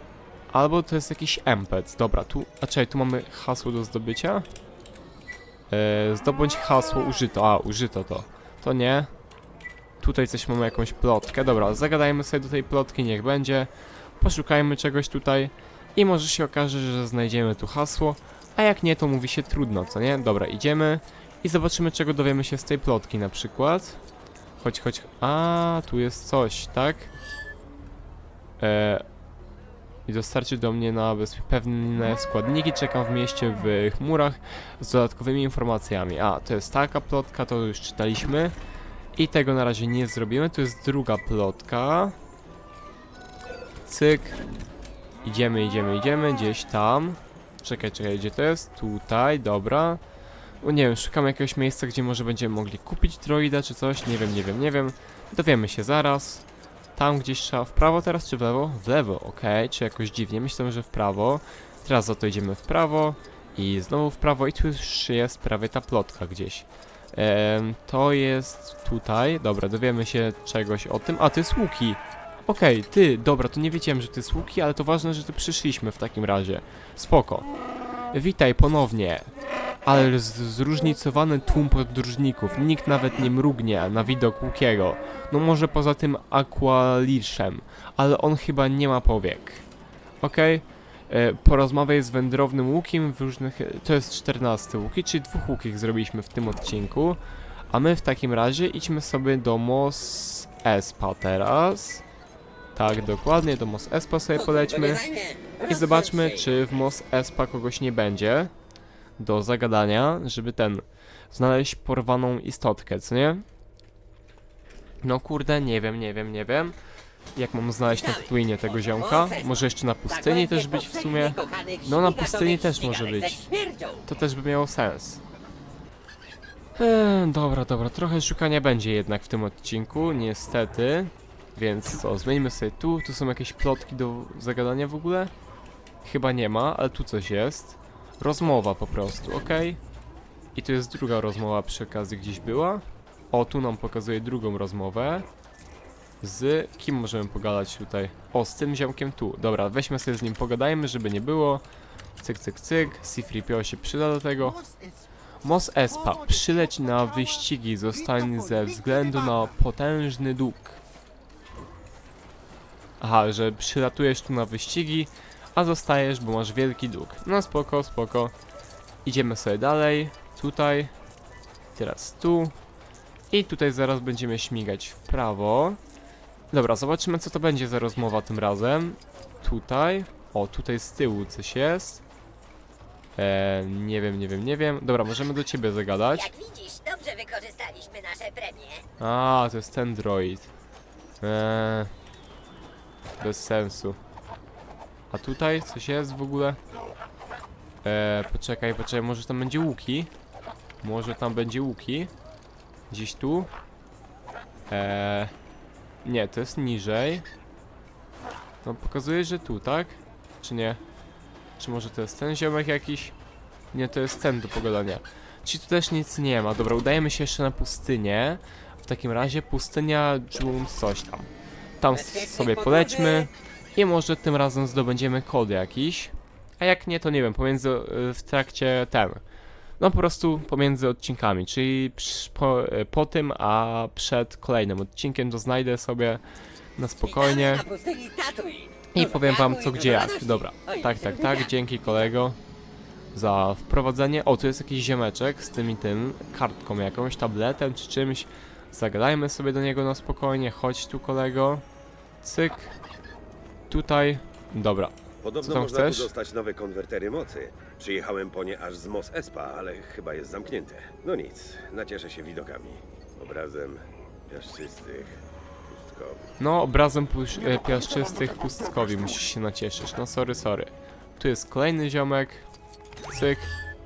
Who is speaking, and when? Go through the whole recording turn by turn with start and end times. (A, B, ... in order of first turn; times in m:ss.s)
0:00.5-0:04.5 A
0:05.7-0:09.1 A
0:10.0-0:24.0 A
0:24.6-0:27.1 A
0:28.6-0:29.0 A
0:30.1-0:38.6 A
0:39.2-0:42.2 A
0:43.9-0:44.6 A
0:45.2-0:50.0 A
0:50.6-1:17.5 A
1:18.1-1:19.3 A
1:19.9-1:29.7 A
1:30.2-1:42.0 A
1:42.8-1:45.1 A
1:44.6-1:46.3 B
1:45.6-1:48.5 A
1:49.2-1:53.4 A
1:55.0-1:56.8 A
1:57.4-2:03.5 A
1:58.9-1:59.4 B
2:00.2-2:04.0 B
2:04.0-2:05.2 A
2:06.8-2:15.3 A
2:16.0-2:19.8 A
2:20.6-2:25.3 A
2:26.2-2:31.6 A
2:32.2-2:34.7 A
2:35.4-2:40.8 A
2:43.0-2:48.3 A
2:49.0-2:50.9 A
2:51.8-2:52.6 A
2:53.3-2:55.8 A
2:56.5-3:02.0 A
3:03.2-3:06.4 A
3:06.1-3:08.8 B
3:09.0-3:10.5 A
3:11.2-3:11.9 A
3:13.2-3:14.0 A
3:15.1-3:16.6 A
3:17.8-3:20.1 A
3:20.8-3:22.1 A
3:22.9-3:23.5 A
3:24.7-3:25.3 A
3:26.0-3:27.3 A
3:28.6-3:30.8 A
3:31.6-3:33.2 A
3:33.7-3:41.3 A
3:41.8-3:49.2 A
3:42.1-3:43.2 B
3:49.8-3:56.2 A
3:56.8-3:57.7 A
3:57.1-4:01.4 B
3:58.9-4:02.4 A
4:03.1-4:11.6 A
4:12.2-4:12.7 A
4:13.7-4:16.1 A
4:15.2-4:26.3 C
4:26.4-4:32.5 A
4:33.1-4:33.5 A